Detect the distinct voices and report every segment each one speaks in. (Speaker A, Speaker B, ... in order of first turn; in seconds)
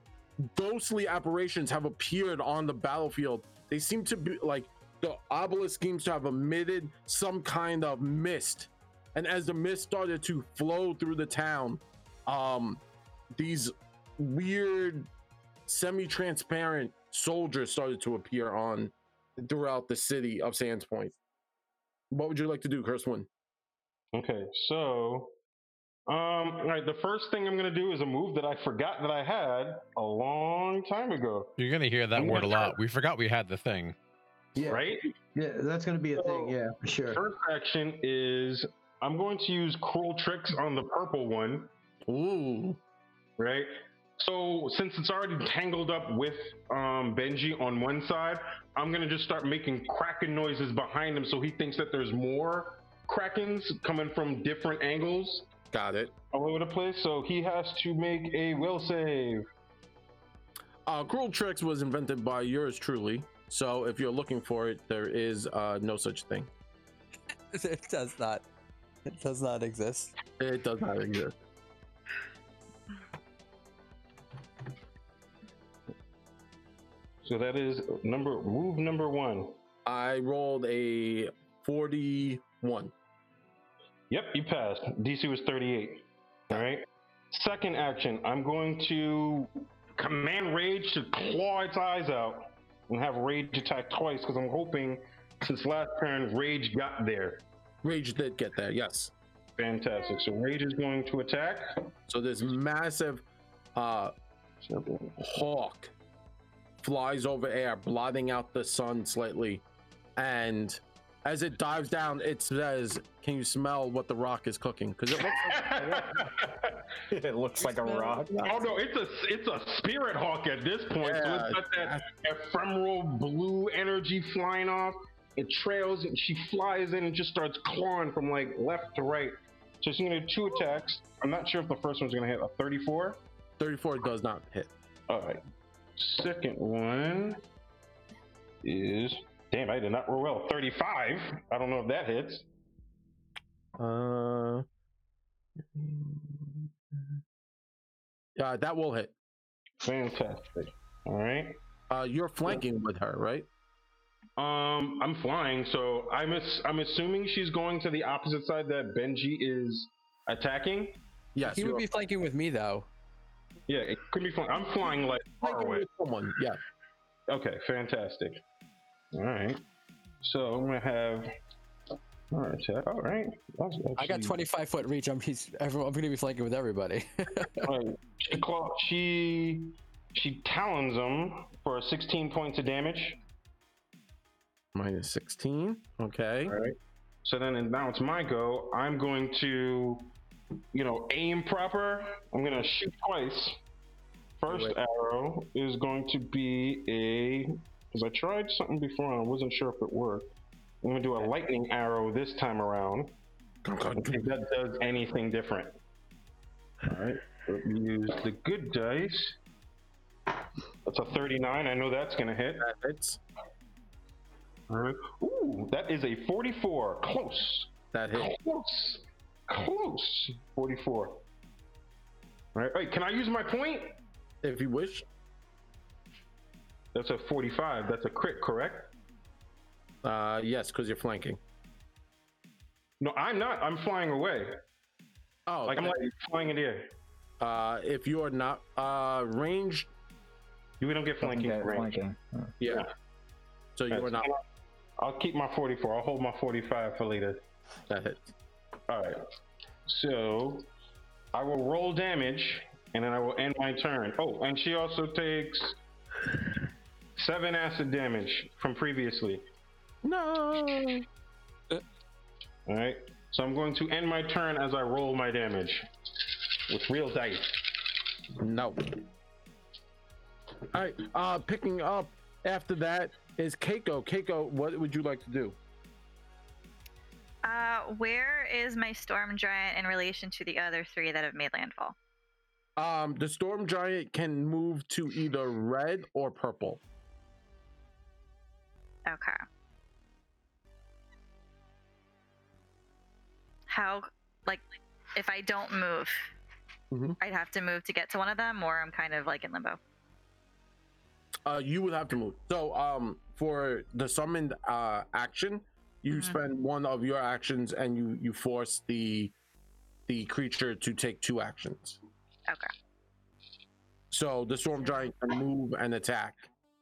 Speaker A: 0.4-12.8, 13.3-15.1, 15.7-21.1, 22.1-23.3, 42.1-42.8, 55.7-56.1, 60.9-66.5, 70.4-71.3, 79.8-82.9, 97.8-99.1, 102.1-103.2, 103.7-104.1, 105.2-105.9, 106.8-109.6, 110.2-116.1, 121.0-122.0, 133.6-134.7, 143.8-144.6, 145.7-146.7, 148.4-149.1, 151.9-153.5, 161.3-161.8, 165.4-166.6, 184.7-186.5, 194.5-194.8, 203.6-204.2, 212.6-213.2, 217.9-218.3, 224.4-225.0, 230.0-231.4, 235.5-235.9, 237.4-239.9, 242.6-242.8, 243.8-244.3, 247.9-248.3, 260.0-261.0, 268.4-269.0, 270.7-275.6, 282.8-286.8, 296.9-297.2, 301.4-309.3, 310.1-312.0, 314.1-316.4
Speaker B: 24.1-25.3, 26.1-31.5, 32.1-32.7, 34.6-35.1, 36.2-41.7, 43.4-55.5, 56.3-59.5, 77.2-79.6, 84.1-97.4, 99.6-101.8, 104.6-105.2, 115.3-116.8, 118.4-133.2, 135.1-135.4, 136.0-137.4, 138.6-142.4, 149.8-151.6, 154.4-161.0, 163.7-165.9, 167.3-168.4, 169.1-169.6, 170.2-171.3, 172.3-174.4, 177.6-183.2, 186.5-190.1, 190.7-193.6, 194.4-200.3, 200.8-203.1, 203.9-205.8, 206.8-209.4, 210.8-212.6, 214.7-221.2, 222.5-223.9, 226.9-228.9, 233.0-234.6, 235.7-236.9, 240.8-242.0, 242.7-242.9, 243.9-244.4, 245.0-247.4, 248.9-249.2, 249.8-250.7, 251.3-255.8, 257.1-259.4, 262.7-265.8, 266.7-267.6
Speaker C: 31.6-33.9
Speaker D: 34.5-34.8, 35.3-37.2
Speaker E: 67.5-68.4, 69.0-70.1, 117.7-118.2, 161.4-162.9, 174.0-177.6
Speaker F: 117.1-118.2, 241.2-242.2
Speaker G: 277.4-281.9, 289.1-289.4, 293.7-294.6, 295.1-296.3, 297.2-299.8, 306.1-306.4